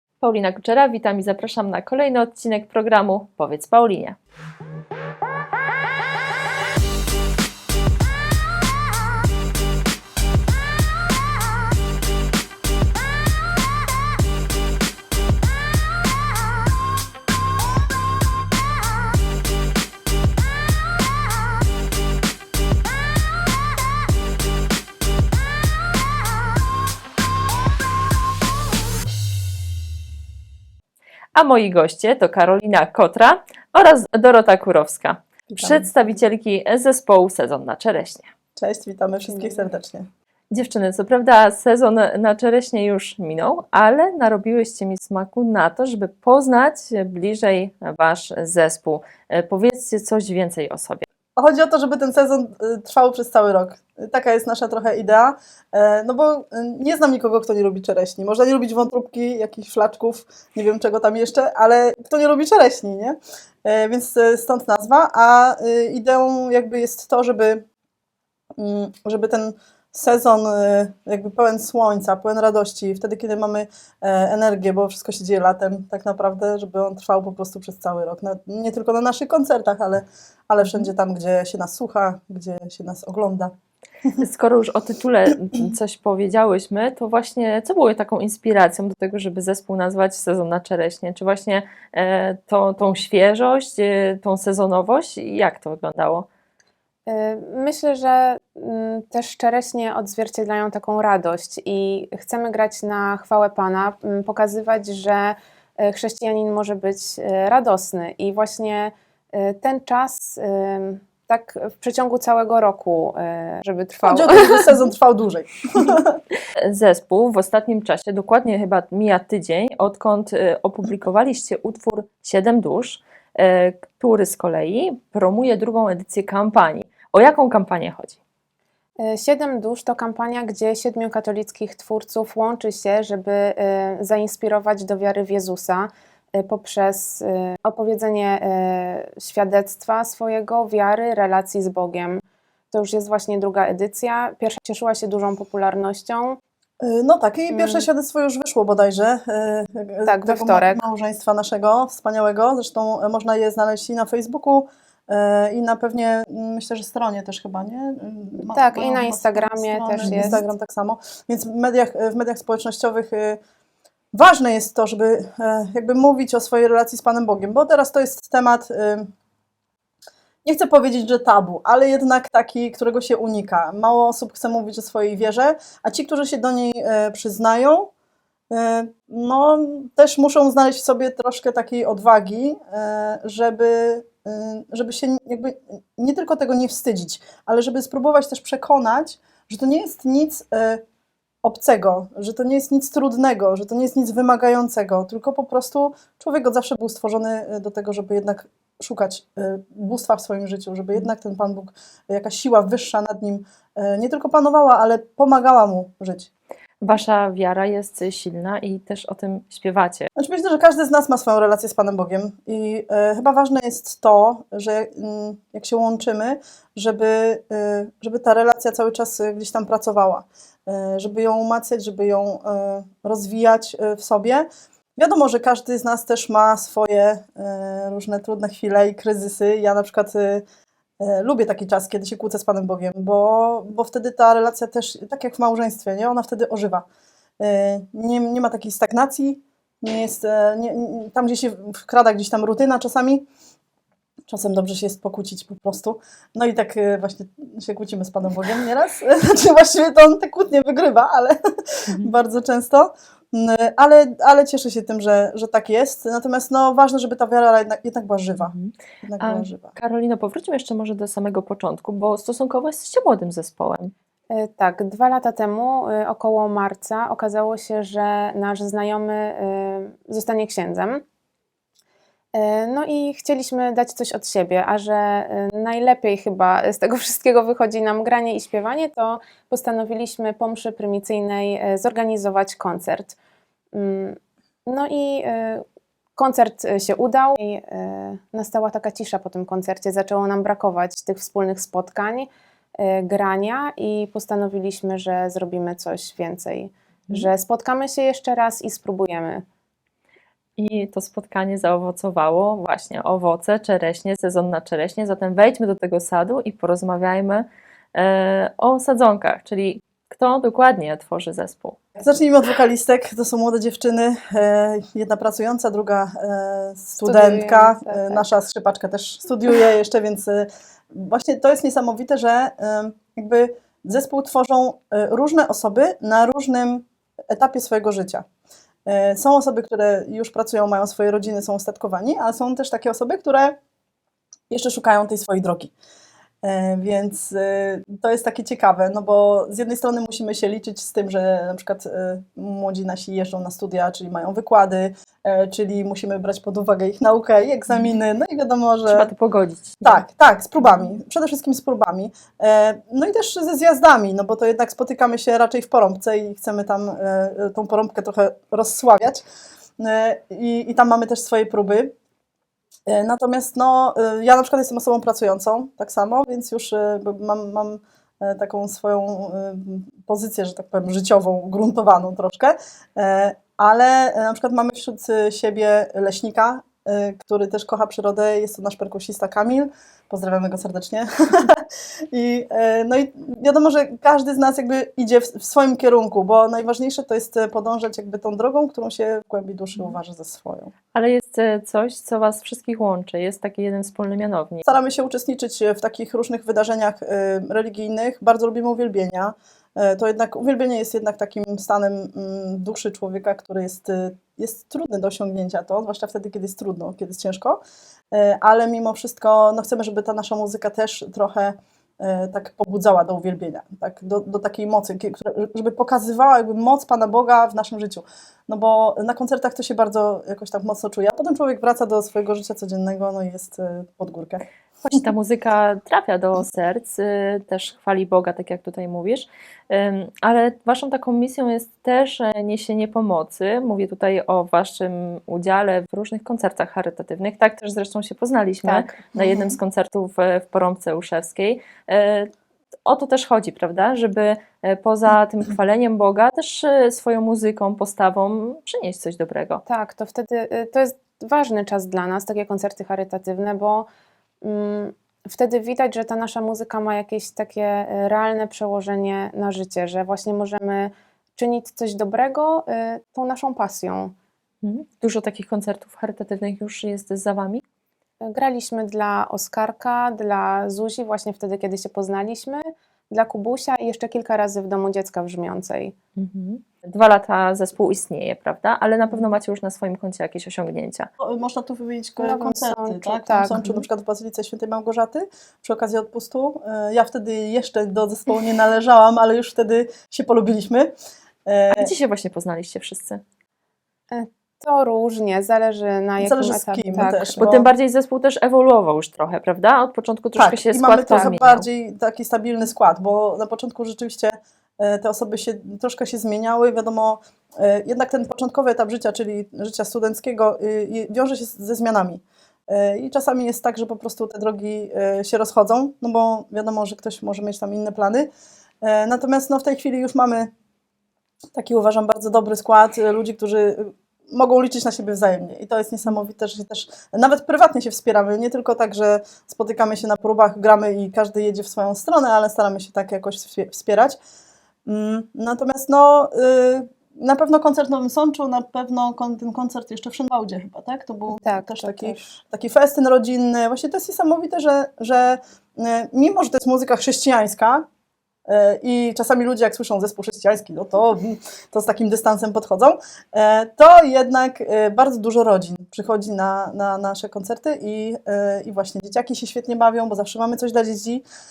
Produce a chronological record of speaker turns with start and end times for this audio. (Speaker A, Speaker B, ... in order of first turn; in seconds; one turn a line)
Speaker A: 0.2-4.2
Speaker A: 31.3-38.3
Speaker B: 35.5-35.9
Speaker B: 38.5-40.1
Speaker C: 39.2-39.7
Speaker A: 40.5-51.0
Speaker B: 51.4-67.6
Speaker B: 68.6-83.5
Speaker A: 84.2-96.2
Speaker C: 97.0-114.7
Speaker B: 114.0-116.2
Speaker A: 116.6-128.2
Speaker C: 129.0-146.4
Speaker B: 146.8-163.4
Speaker C: 147.5-147.8
Speaker C: 150.1-150.8
Speaker C: 158.5-160.4
Speaker A: 160.0-160.4
Speaker B: 164.1-169.1
Speaker B: 170.4-177.9
Speaker B: 178.5-190.8
Speaker B: 191.4-206.3
Speaker A: 206.8-210.1
Speaker B: 210.2-230.4
Speaker B: 231.0-236.8
Speaker B: 237.4-243.2
Speaker B: 244.3-259.7
Speaker A: 258.5-263.9
Speaker C: 264.3-271.0
Speaker C: 272.3-283.1
Speaker C: 283.7-285.6
Speaker C: 286.2-299.4
Speaker A: 300.6-311.8
Speaker B: 312.0-328.2
Speaker C: 317.0-318.2
Speaker B: 328.9-333.6
Speaker B: 334.5-335.7
Speaker B: 336.4-349.1
Speaker A: 348.9-350.0
Speaker B: 349.8-359.2
Speaker B: 359.8-361.9
Speaker B: 362.9-390.7
Speaker A: 390.9-394.6
Speaker B: 394.6-407.6
Speaker B: 408.1-424.4
Speaker A: 424.8-442.3
Speaker C: 438.6-439.2
Speaker A: 442.9-449.6
Speaker C: 449.6-453.9
Speaker C: 454.4-464.1
Speaker A: 464.6-467.6
Speaker C: 468.2-475.9
Speaker A: 476.2-481.1
Speaker B: 481.2-490.9
Speaker C: 482.2-483.8
Speaker B: 491.4-491.9
Speaker A: 491.7-493.2
Speaker C: 494.1-497.4
Speaker B: 496.2-497.6
Speaker A: 497.4-501.6
Speaker B: 500.3-518.3
Speaker B: 518.8-520.5
Speaker B: 521.5-534.2
Speaker B: 534.9-547.9
Speaker C: 541.3-542.3
Speaker B: 548.5-561.2